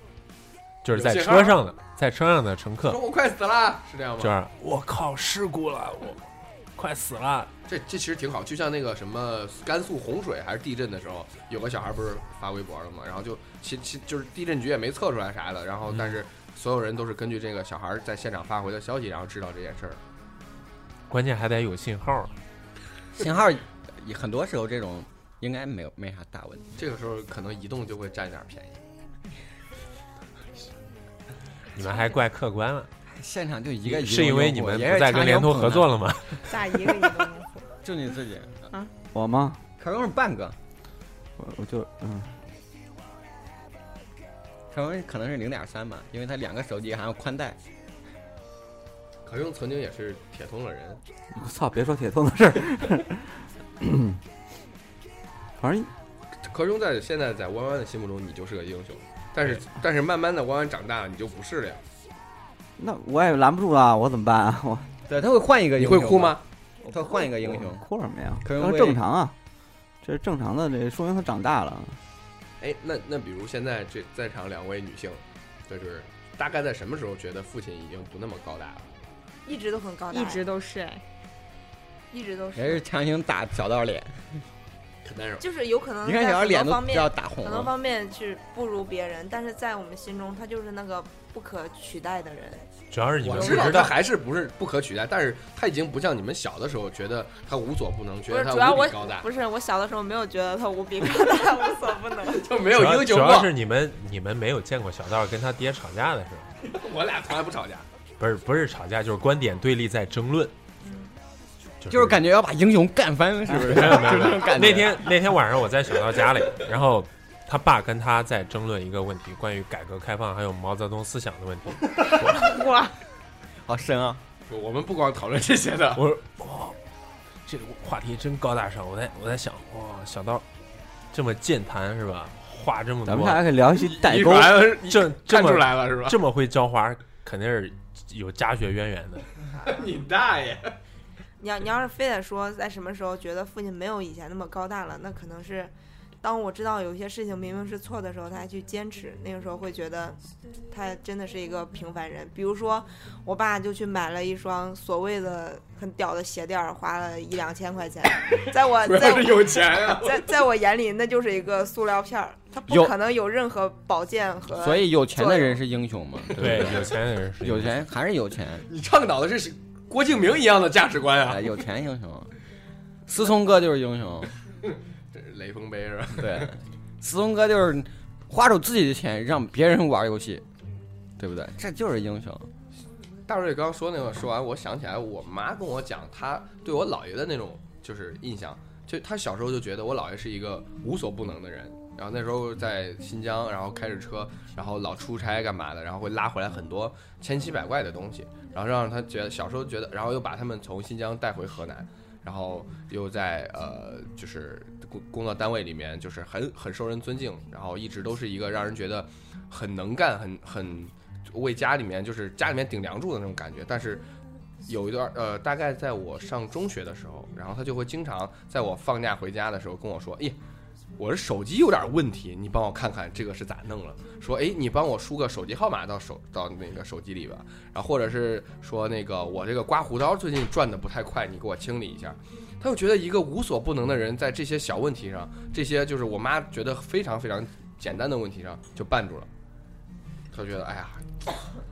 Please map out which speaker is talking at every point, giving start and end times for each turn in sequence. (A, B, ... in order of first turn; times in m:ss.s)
0:00.8-0:03.0 A
0:00.9-0:01.6 B
0:02.8-0:04.3 B
0:04.2-0:06.2 A
0:06.8-0:07.5 A
0:07.7-0:20.0 B
0:15.9-0:16.2 A
0:21.1-0:22.3 A
0:23.2-0:26.7 C
0:26.8-0:28.8 B
0:31.8-0:32.9 A
0:33.1-0:35.9 C
0:33.8-0:36.9 A
0:36.5-0:37.7 D
0:37.8-0:38.6 C
0:39.1-0:39.6 E
0:39.8-0:40.6 C
0:41.4-0:42.3 E
0:44.7-0:47.6 C
0:49.2-0:51.0 B
0:51.3-0:53.3 E
0:53.8-0:54.2 E
0:55.6-0:55.9 E
0:56.4-1:01.8 B
1:02.8-1:04.9 E
1:05.1-1:07.9 C
1:05.8-1:06.4 B
1:06.9-1:09.4 E
1:08.4-1:09.0 C
1:10.0-1:12.0 E
1:12.6-1:18.9 B
1:19.4-1:20.4 F
1:20.1-1:21.0 D
1:22.1-1:22.8 F
1:22.6-1:24.4 C
1:25.0-1:25.4 B
1:25.4-1:32.7 F
1:26.0-1:27.7 C
1:32.9-1:34.0 A
1:33.2-1:39.3 B
1:33.3-1:33.9 F
1:38.3-1:42.5 F
1:42.2-1:43.5 B
1:42.7-1:46.5 A
1:46.6-1:47.9 B
1:48.2-1:50.5 A
1:50.8-1:51.1 F
1:51.8-1:52.2 A
1:51.9-1:55.1 C
1:53.5-2:02.6 A
2:02.4-2:02.9 D
2:03.6-2:04.2 C
2:04.5-2:06.1 B
2:06.0-2:06.8 A
2:07.5-2:10.4 A
2:11.1-2:13.4 A
2:13.0-2:14.7 E
2:13.7-2:16.2 B
2:14.8-2:19.3 A
2:19.6-2:20.7 B
2:21.4-2:30.2 F
2:30.7-2:45.6 F
2:38.8-2:40.3 B
2:42.7-2:42.9 C
2:44.6-2:46.9 C
2:46.3-2:46.9 B
2:46.4-2:47.8 A
2:47.4-2:48.7 C
2:48.7-2:51.5 B
2:51.3-2:52.3 C
2:53.1-2:54.3 C
2:55.1-2:56.6 B
2:56.2-3:00.4 C
3:01.2-3:02.5 C
3:03.3-3:34.1 B
3:34.7-3:40.4 B
3:41.0-3:59.3 B
4:00.3-4:01.4 B